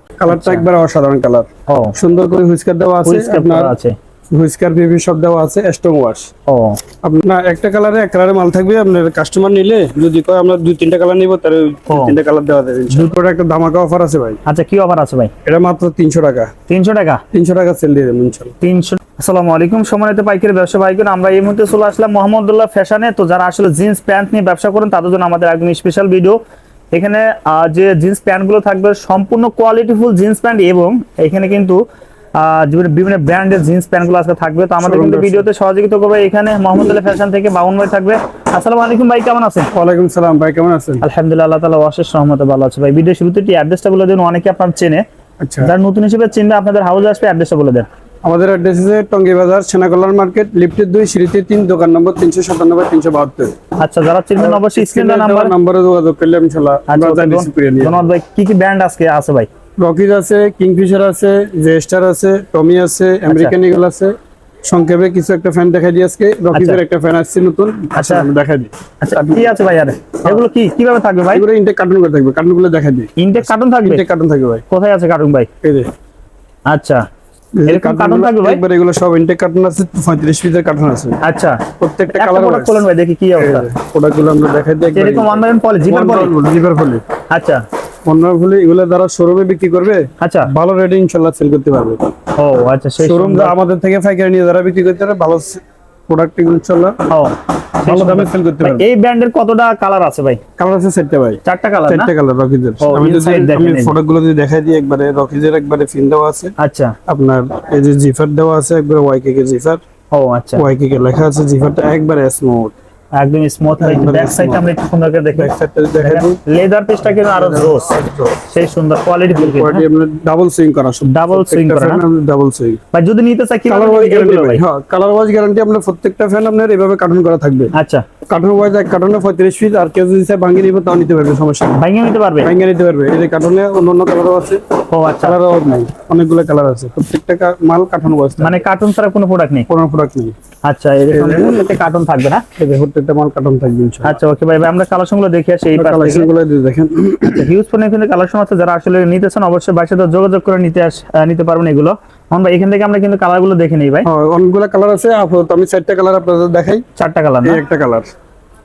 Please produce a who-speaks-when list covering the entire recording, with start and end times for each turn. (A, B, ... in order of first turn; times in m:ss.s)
0:00.2-0:03.8 A
0:00.3-0:00.7 B
0:01.7-0:02.0 B
0:03.0-0:04.0 B
0:04.3-0:06.3 A
0:06.5-0:06.8 B
0:07.0-0:14.4 A
0:11.9-0:12.2 B
0:14.5-0:15.3 B
0:15.4-0:16.5 A
0:16.7-0:17.2 B
0:17.3-0:18.6 A
0:18.6-0:26.4 B
0:26.9-0:31.8 B
0:32.4-0:39.7 B
0:34.8-0:35.5 A
0:39.7-0:41.0 A
0:41.0-0:45.0 B
0:45.4-0:45.7 A
0:45.6-0:47.9 B
0:48.2-0:53.6 A
0:53.8-0:55.5 B
0:54.4-0:58.0 A
0:56.9-0:59.5 B
0:59.8-1:09.6 A
1:03.3-1:03.6 B
1:06.5-1:06.8 B
1:08.0-1:08.3 B
1:09.0-1:11.4 B
1:11.3-1:14.6 A
1:13.2-1:14.0 B
1:14.7-1:15.5 B
1:15.6-1:15.9 A
1:16.7-1:17.0 B
1:17.6-1:21.2 A
1:17.7-1:18.6 B
1:21.2-1:23.7 B
1:21.8-1:22.8 A
1:23.4-1:27.0 A
1:24.9-1:26.4 B
1:27.3-1:27.6 B
1:28.1-1:32.0 A
1:30.2-1:30.5 B
1:32.4-1:33.6 B
1:33.0-1:37.0 A
1:37.1-1:40.4 B
1:37.8-1:38.9 A
1:40.6-1:46.6 A
1:41.4-1:42.1 B
1:42.8-1:44.0 B
1:46.6-1:47.0 B
1:47.1-1:49.8 A
1:50.1-1:50.7 B
1:50.6-1:52.8 A
1:53.2-1:59.8 B
1:53.8-1:54.7 A
1:55.4-1:56.4 A
1:57.3-1:58.4 A
1:59.3-2:02.8 A
2:01.1-2:02.0 B
2:02.9-2:04.6 B
2:03.7-2:07.7 A
2:07.7-2:08.1 B
2:08.3-2:11.8 A
2:11.8-2:12.5 B
2:12.4-2:14.6 A
2:14.9-2:15.4 B
2:15.2-2:18.7 A
2:18.4-2:19.7 B
2:19.7-2:20.4 A
2:20.6-2:22.4 B
2:21.1-2:21.6 A
2:22.6-2:24.2 A
2:24.0-2:26.3 B
2:25.8-2:27.5 A
2:27.4-2:34.1 B
2:34.0-2:36.8 A
2:37.0-2:37.6 B
2:37.4-2:38.1 A